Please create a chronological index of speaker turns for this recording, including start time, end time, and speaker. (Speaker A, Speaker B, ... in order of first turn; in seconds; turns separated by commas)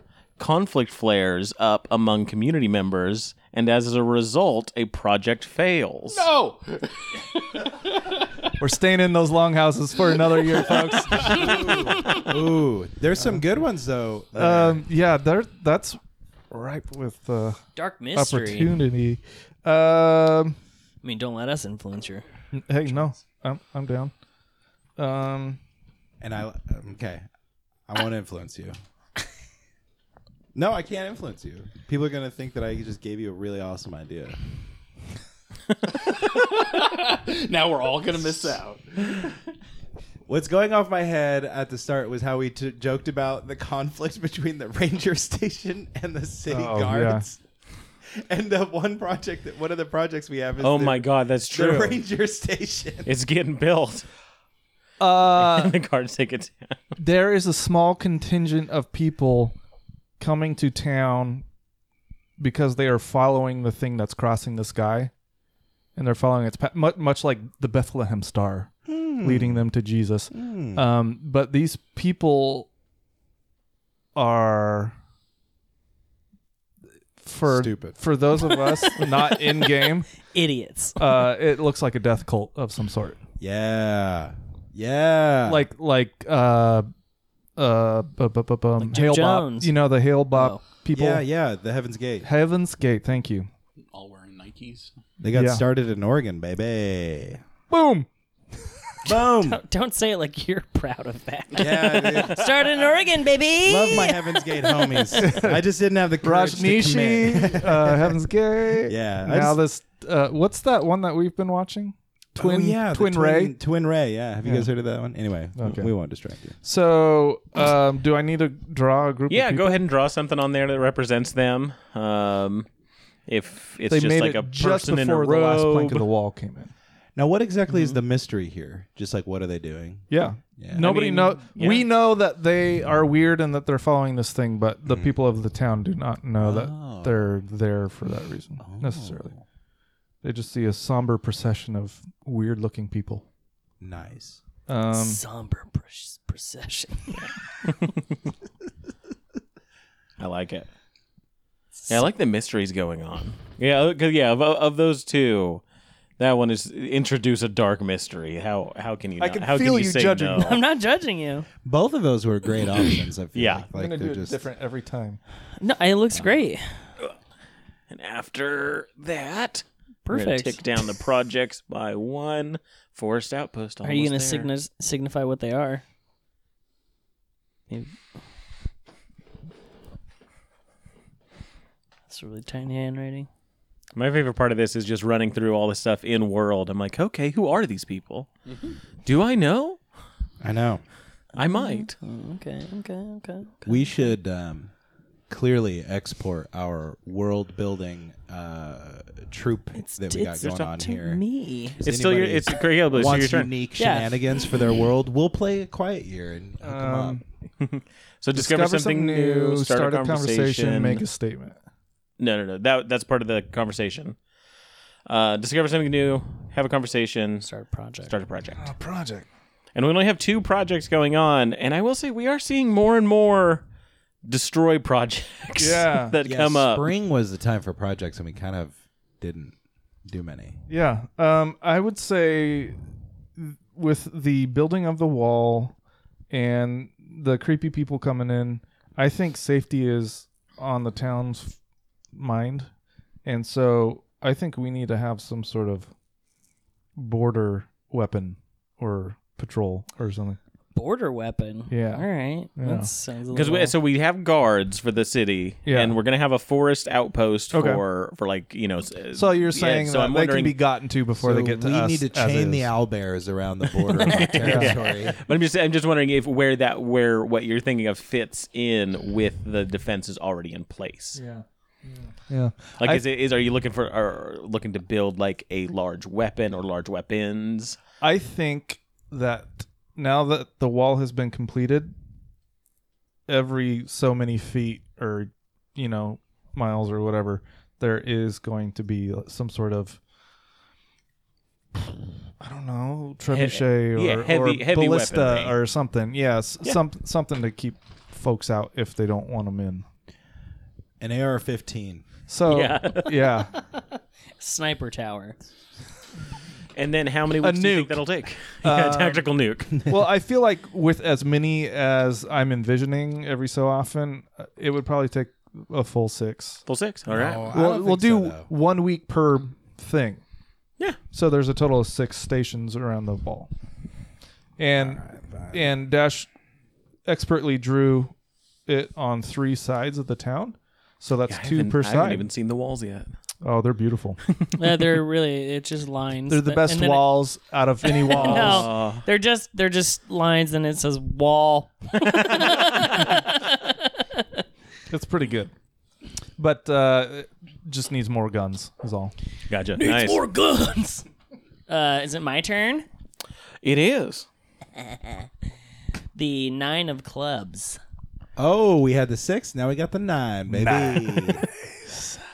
Speaker A: 0.4-6.3, Speaker B: 6.1-8.5, Speaker C: 8.6-11.8, Speaker B: 10.6-11.5, Speaker D: 11.2-14.8, Speaker C: 14.4-16.0, Speaker C: 16.5-20.6, Speaker E: 17.8-18.8, Speaker E: 21.0-22.2, Speaker C: 22.5-24.1, Speaker C: 25.0-25.6, Speaker D: 26.2-27.3, Speaker D: 27.9-28.8, Speaker D: 30.5-34.4, Speaker B: 35.9-39.3, Speaker D: 40.3-47.4, Speaker C: 46.5-47.2, Speaker D: 48.0-53.1, Speaker A: 50.6-52.0, Speaker A: 53.0-54.1, Speaker C: 55.0-55.8, Speaker A: 55.3-56.8, Speaker C: 57.0-59.6, Speaker C: 60.2-61.5, Speaker C: 62.4-65.1, Speaker C: 66.0-72.7, Speaker D: 68.9-69.7, Speaker D: 70.3-70.8, Speaker C: 74.2-75.0, Speaker C: 77.2-80.1, Speaker D: 77.5-78.0, Speaker E: 79.0-79.3, Speaker E: 80.3-81.0, Speaker C: 81.0-83.2, Speaker D: 83.4-85.7, Speaker C: 85.5-86.9, Speaker C: 87.6-91.2, Speaker E: 88.8-89.7, Speaker E: 90.3-90.6, Speaker D: 90.9-92.3, Speaker C: 92.2-93.5, Speaker B: 93.9-94.9, Speaker D: 95.2-97.4, Speaker C: 95.3-95.6, Speaker C: 97.7-98.1, Speaker D: 99.0-99.6, Speaker E: 99.2-105.3, Speaker D: 101.5-102.5, Speaker D: 103.7-108.3, Speaker C: 105.2-105.6, Speaker C: 106.2-113.5, Speaker D: 108.8-109.6, Speaker D: 112.4-116.6, Speaker C: 114.4-114.7, Speaker C: 115.6-115.9, Speaker C: 116.6-119.8, Speaker A: 119.3-122.7, Speaker A: 123.3-126.1, Speaker C: 123.9-126.7, Speaker D: 127.2-130.9, Speaker C: 130.1-139.3, Speaker A: 130.8-131.9, Speaker D: 134.9-135.2, Speaker D: 136.4-137.4, Speaker D: 138.6-139.4, Speaker C: 140.2-143.2, Speaker D: 143.8-144.4, Speaker C: 144.7-145.2, Speaker E: 144.9-147.3, Speaker A: 147.1-148.1, Speaker A: 150.2-150.7, Speaker A: 151.9-155.6, Speaker A: 156.2-160.6, Speaker C: 159.2-160.6, Speaker E: 160.4-161.5, Speaker D: 161.6-164.4, Speaker A: 163.3-163.7, Speaker C: 163.7-165.2, Speaker E: 165.6-166.8, Speaker A: 167.9-174.5, Speaker E: 170.1-170.6, Speaker E: 173.8-175.8, Speaker E: 177.7-178.0, Speaker E: 182.1-183.3, Speaker A: 183.9-188.3, Speaker B: 188.5-188.8, Speaker A: 189.1-189.8, Speaker D: 190.4-190.8, Speaker A: 191.3-191.9, Speaker E: 191.5-194.0, Speaker D: 193.7-194.7, Speaker D: 195.3-201.2, Speaker E: 199.8-201.8, Speaker A: 200.4-200.7, Speaker D: 201.8-207.2, Speaker A: 201.8-203.5, Speaker E: 203.8-204.2, Speaker C: 206.6-207.2, Speaker A: 207.6-211.1, Speaker C: 208.3-211.6, Speaker A: 212.2-214.2, Speaker A: 215.1-217.5, Speaker E: 217.4-218.1, Speaker A: 218.1-218.7, Speaker C: 218.6-219.3, Speaker A: 219.8-223.6, Speaker A: 224.2-226.9, Speaker C: 225.6-226.2, Speaker D: 226.2-230.6, Speaker C: 230.7-232.8, Speaker C: 233.4-235.8, Speaker C: 236.3-241.6, Speaker C: 242.1-242.7, Speaker C: 243.2-245.9, Speaker C: 247.0-250.4, Speaker E: 250.7-253.8, Speaker C: 251.7-252.9, Speaker A: 253.3-260.6, Speaker C: 255.7-255.9, Speaker C: 257.5-257.8, Speaker C: 259.1-262.7, Speaker D: 261.2-265.2, Speaker A: 264.0-271.2, Speaker C: 264.4-264.8, Speaker C: 271.1-273.0, Speaker A: 272.8-277.8, Speaker C: 278.0-281.9, Speaker C: 283.3-290.0, Speaker C: 292.4-299.9, Speaker A: 293.3-295.6, Speaker D: 301.0-302.1, Speaker C: 302.3-303.5, Speaker A: 302.5-303.3, Speaker E: 303.5-303.8, Speaker E: 304.4-305.4, Speaker A: 306.8-309.8, Speaker C: 307.4-308.0, Speaker C: 308.6-309.2, Speaker C: 309.8-316.6, Speaker A: 316.7-317.5, Speaker D: 317.1-318.5, Speaker C: 317.5-320.2, Speaker C: 321.1-323.5, Speaker C: 324.6-326.3, Speaker D: 324.8-325.8, Speaker C: 327.1-328.1, Speaker C: 328.7-332.2, Speaker A: 331.3-333.1, Speaker C: 333.4-334.2, Speaker E: 334.5-337.2, Speaker C: 336.3-338.7, Speaker E: 337.9-344.2, Speaker A: 338.1-339.1, Speaker A: 342.0-343.1, Speaker C: 344.9-345.5, Speaker C: 346.4-349.1, Speaker A: 349.5-350.2, Speaker E: 349.8-351.1, Speaker E: 351.7-352.9, Speaker A: 353.6-354.3, Speaker E: 356.1-357.8, Speaker D: 358.4-361.5, Speaker C: 360.5-362.2